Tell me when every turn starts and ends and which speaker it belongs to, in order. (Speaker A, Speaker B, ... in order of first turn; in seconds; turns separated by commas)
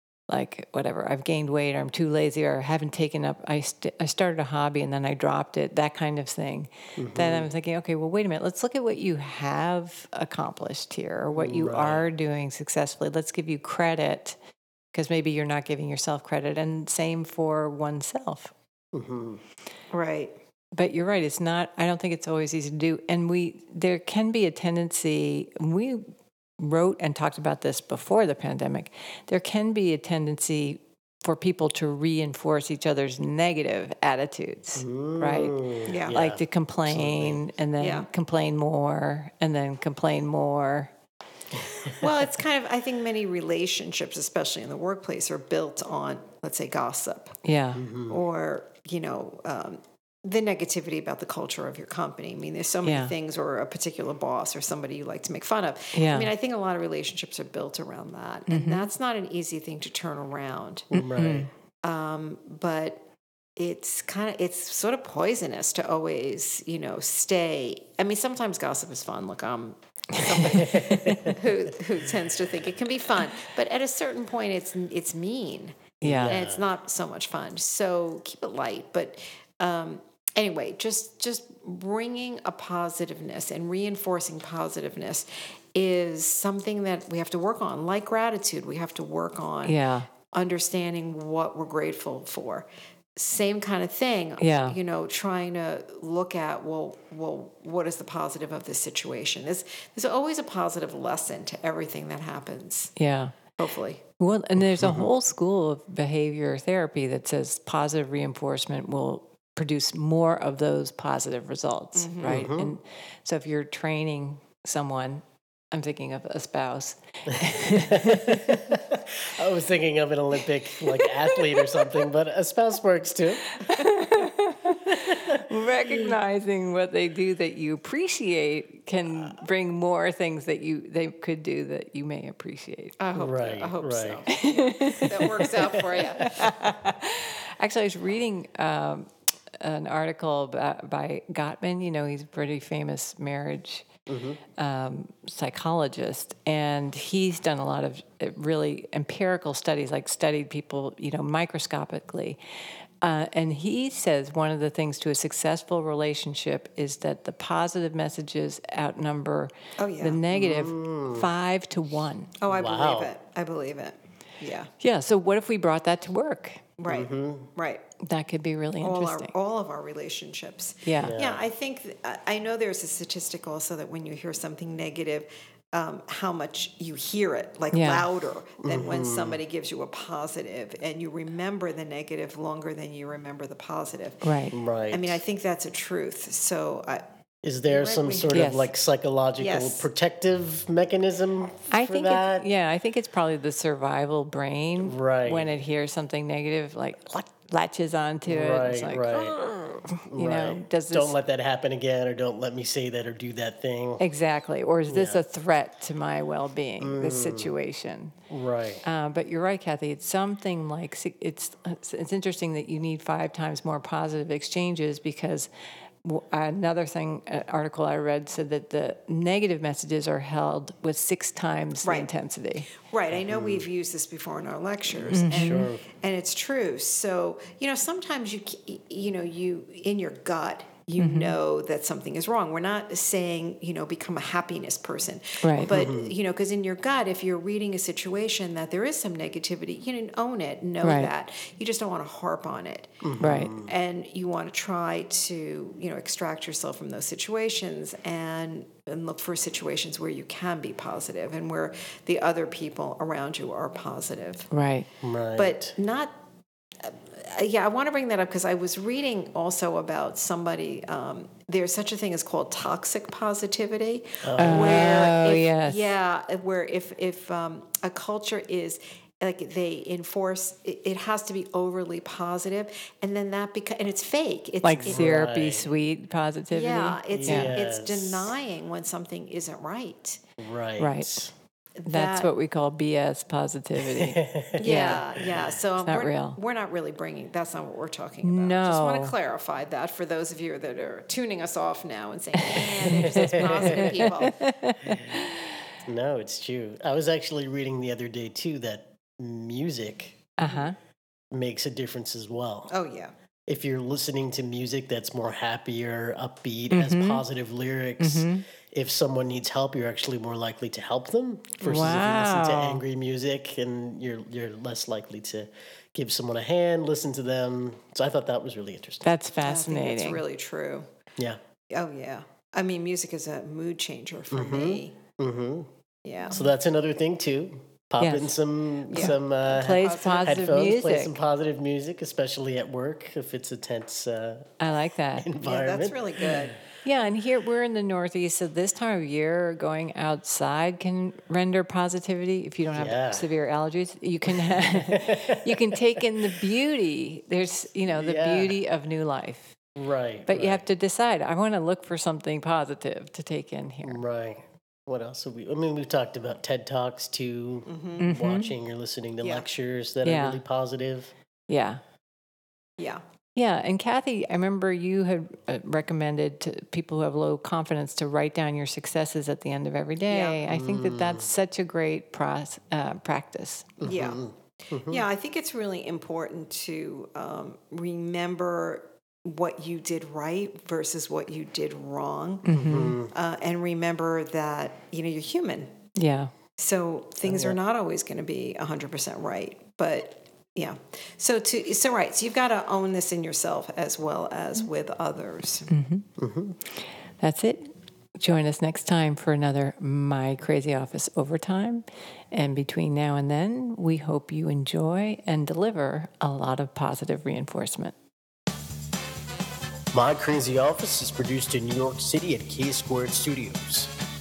Speaker A: 0.3-14.4, Speaker B: 7.0-7.5, Speaker B: 11.4-12.0, Speaker A: 14.9-18.5, Speaker B: 18.9-19.4, Speaker C: 19.9-20.4, Speaker A: 20.7-26.1, Speaker A: 26.6-40.9, Speaker B: 34.8-37.4, Speaker C: 35.9-36.2, Speaker C: 37.8-38.1, Speaker C: 42.0-47.4, Speaker A: 47.4-47.8, Speaker B: 47.8-48.2, Speaker C: 48.0-60.9, Speaker A: 52.8-53.1, Speaker A: 55.9-56.3, Speaker A: 58.5-58.9, Speaker A: 60.9-61.5, Speaker B: 60.9-61.5, Speaker C: 61.8-63.0, Speaker C: 63.6-102.9, Speaker A: 70.2-71.2, Speaker B: 70.5-71.4, Speaker B: 76.0-76.6, Speaker A: 76.0-76.4, Speaker A: 89.6-90.1, Speaker A: 94.4-94.8, Speaker A: 103.0-103.4, Speaker C: 103.6-104.0, Speaker A: 104.2-118.7, Speaker B: 104.6-105.1, Speaker C: 112.0-112.5, Speaker B: 112.2-112.7, Speaker B: 117.9-123.6, Speaker A: 120.8-122.1, Speaker A: 123.5-133.0, Speaker C: 133.0-136.5, Speaker B: 133.2-134.3, Speaker A: 134.3-139.1, Speaker A: 139.6-143.9, Speaker B: 144.1-144.4, Speaker A: 144.6-152.4, Speaker A: 153.0-162.3, Speaker C: 159.8-160.2, Speaker B: 160.3-161.3, Speaker C: 162.4-164.7, Speaker B: 162.5-163.1, Speaker A: 164.8-166.6, Speaker C: 166.8-167.8, Speaker B: 166.9-167.5, Speaker A: 168.0-169.3, Speaker C: 168.8-184.2, Speaker A: 170.8-171.2, Speaker B: 171.0-171.4, Speaker A: 177.7-178.1, Speaker B: 178.6-179.4, Speaker A: 184.2-184.6, Speaker B: 184.5-185.2, Speaker C: 184.9-187.0, Speaker B: 187.4-192.5, Speaker C: 187.7-188.5, Speaker A: 188.3-188.7, Speaker C: 189.4-189.9, Speaker A: 191.7-201.2, Speaker B: 194.8-195.5, Speaker B: 198.2-199.4, Speaker B: 200.1-204.0, Speaker A: 204.0-208.2, Speaker B: 204.9-205.2, Speaker B: 206.8-207.5, Speaker B: 208.3-208.8, Speaker A: 208.8-215.5, Speaker A: 216.0-222.7, Speaker C: 221.8-222.1, Speaker C: 222.8-243.0, Speaker B: 223.2-223.7, Speaker A: 225.1-225.7, Speaker B: 225.2-225.8, Speaker A: 231.0-231.4, Speaker A: 235.4-235.7, Speaker B: 235.6-236.1, Speaker A: 240.8-241.1, Speaker B: 243.0-243.7, Speaker A: 243.2-243.6, Speaker C: 243.6-254.5, Speaker A: 254.5-254.9, Speaker B: 255.0-255.7, Speaker C: 255.4-256.1, Speaker C: 256.8-275.3, Speaker B: 264.2-264.9, Speaker A: 264.4-265.9, Speaker A: 274.6-277.6, Speaker B: 274.8-275.7, Speaker C: 276.5-280.2, Speaker B: 277.1-278.4, Speaker B: 280.4-281.3, Speaker A: 280.8-281.2, Speaker C: 281.8-282.3, Speaker A: 281.9-285.1, Speaker B: 283.8-285.6, Speaker C: 284.6-294.5, Speaker A: 285.8-286.4, Speaker A: 288.2-289.1, Speaker A: 292.4-295.3, Speaker B: 292.9-293.9, Speaker B: 294.9-295.2, Speaker B: 295.9-300.3, Speaker A: 300.4-300.8, Speaker C: 300.4-300.7, Speaker B: 301.3-302.7, Speaker C: 302.7-303.1, Speaker B: 303.5-319.1, Speaker A: 306.7-307.2, Speaker A: 308.0-308.5, Speaker A: 311.6-312.8, Speaker A: 319.0-320.2, Speaker C: 319.4-320.9, Speaker C: 321.7-325.0, Speaker B: 324.3-325.7, Speaker C: 326.1-326.4, Speaker B: 326.3-334.6, Speaker A: 328.0-328.4, Speaker C: 328.9-329.2, Speaker A: 328.9-331.2, Speaker C: 329.8-330.3, Speaker A: 334.6-335.3, Speaker B: 335.2-336.5, Speaker C: 335.4-336.6, Speaker A: 336.8-349.6, Speaker B: 342.7-343.3, Speaker B: 344.3-345.8, Speaker B: 347.9-348.6, Speaker B: 349.8-350.6, Speaker A: 350.3-354.0, Speaker B: 353.8-361.1, Speaker C: 357.7-358.1, Speaker A: 358.0-358.6, Speaker C: 359.2-359.5, Speaker A: 360.0-360.4, Speaker A: 361.5-361.8, Speaker A: 363.4-373.8, Speaker C: 370.1-370.4, Speaker B: 370.5-371.3, Speaker C: 373.8-374.2, Speaker B: 373.8-375.0, Speaker C: 374.8-382.5, Speaker A: 382.4-383.0, Speaker B: 382.5-383.1, Speaker C: 383.0-385.7, Speaker A: 386.0-386.3, Speaker C: 386.6-395.7, Speaker B: 387.2-387.6, Speaker A: 395.7-396.1, Speaker B: 396.2-396.6, Speaker A: 397.2-407.9, Speaker B: 409.9-413.9